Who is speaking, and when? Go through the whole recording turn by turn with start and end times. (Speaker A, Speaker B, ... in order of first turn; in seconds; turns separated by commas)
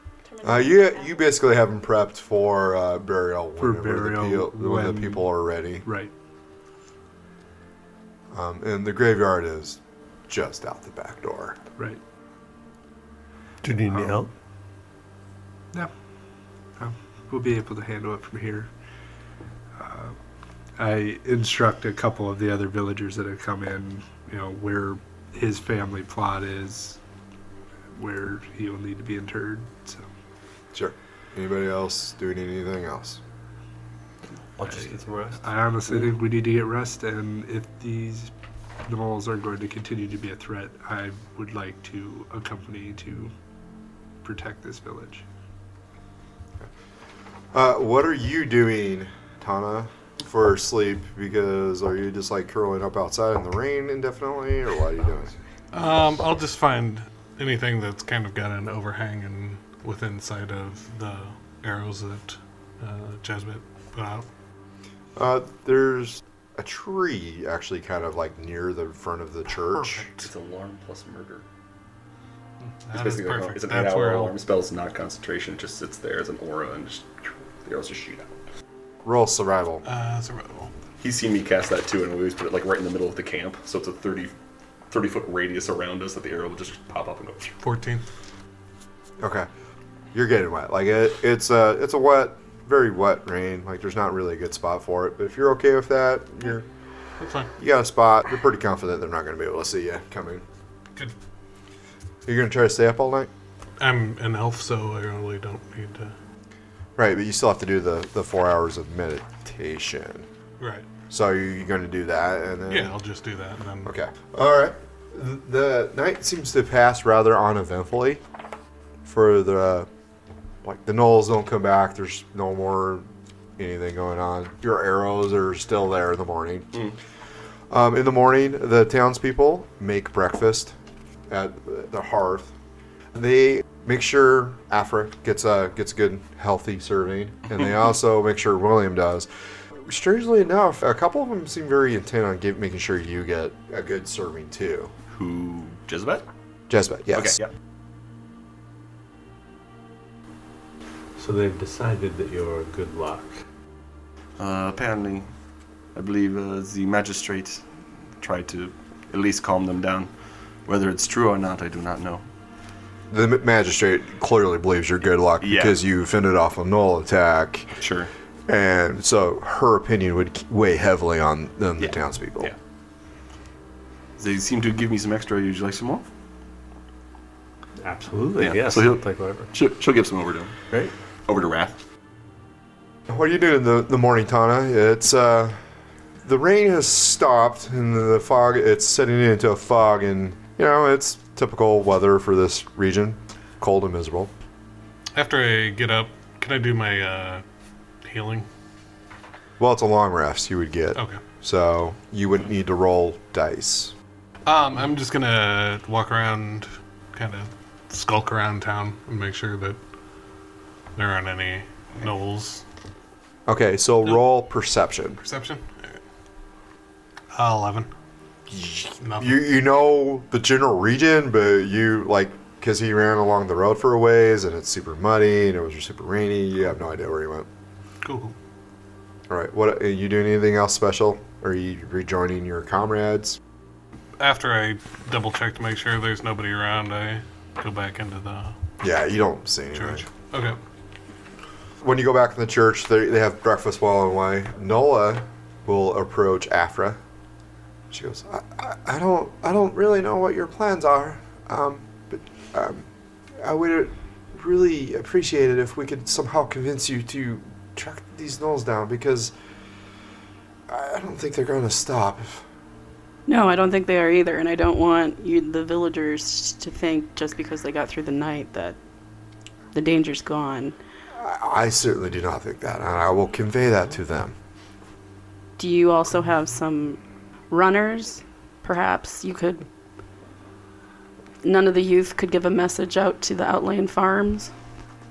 Speaker A: 0.3-0.9, Speaker B: 0.4-5.8, Speaker C: 3.6-5.3, Speaker C: 5.8-6.1, Speaker B: 8.3-11.6, Speaker D: 13.6-14.3, Speaker C: 13.9-14.2, Speaker C: 16.8-18.7, Speaker C: 19.8-20.2, Speaker C: 20.8-27.0, Speaker C: 27.9-30.1, Speaker B: 30.7-33.2, Speaker D: 34.6-35.4, Speaker C: 35.4-38.3, Speaker C: 38.8-43.3, Speaker C: 44.2-45.2, Speaker B: 47.5-55.3, Speaker E: 55.7-64.3, Speaker B: 65.2-70.1, Speaker E: 69.8-70.3, Speaker F: 70.2-71.4, Speaker E: 72.9-74.3, Speaker F: 72.9-78.3, Speaker B: 79.0-79.8, Speaker E: 79.8-80.7, Speaker F: 81.0-84.3, Speaker F: 84.9-87.5, Speaker E: 87.6-88.0, Speaker B: 89.2-89.5, Speaker B: 90.1-96.7, Speaker E: 97.2-97.5, Speaker B: 97.6-100.4, Speaker B: 102.2-103.3, Speaker E: 103.8-106.1, Speaker B: 107.0-110.3, Speaker E: 110.6-110.8, Speaker B: 111.1-112.9, Speaker E: 112.7-113.9, Speaker B: 113.8-118.2, Speaker B: 119.0-119.9, Speaker B: 120.6-123.1, Speaker B: 123.6-126.8, Speaker B: 127.7-130.7, Speaker B: 131.3-132.5, Speaker B: 133.1-139.3, Speaker B: 139.8-144.9, Speaker F: 145.1-146.3, Speaker B: 146.7-147.4, Speaker F: 147.1-147.5, Speaker D: 151.2-153.4, Speaker F: 154.4-155.3, Speaker F: 155.9-160.1, Speaker F: 160.7-162.2, Speaker B: 163.1-167.8, Speaker F: 165.4-165.8, Speaker F: 167.8-168.1, Speaker B: 168.5-172.5, Speaker F: 171.8-172.6, Speaker F: 174.2-176.1, Speaker D: 177.8-179.5, Speaker F: 178.4-180.6, Speaker F: 181.3-181.8, Speaker B: 183.1-185.6, Speaker B: 186.2-194.3, Speaker E: 195.1-197.4, Speaker E: 198.0-198.5, Speaker B: 199.6-203.9, Speaker E: 200.9-201.2, Speaker E: 204.4-209.8, Speaker E: 210.9-212.6, Speaker B: 213.5-215.2, Speaker E: 215.2-216.0, Speaker E: 217.3-217.9, Speaker B: 218.5-227.5, Speaker E: 219.0-219.4, Speaker E: 228.0-228.3, Speaker B: 229.3-233.4, Speaker E: 234.2-238.6, Speaker B: 238.8-240.0, Speaker E: 239.7-240.6, Speaker B: 241.8-247.0, Speaker B: 247.9-252.9, Speaker B: 253.4-259.3, Speaker B: 260.7-262.4, Speaker A: 263.3-268.8, Speaker A: 269.7-270.8, Speaker B: 271.2-274.3, Speaker A: 275.6-277.0, Speaker A: 277.5-279.6, Speaker A: 281.4-284.5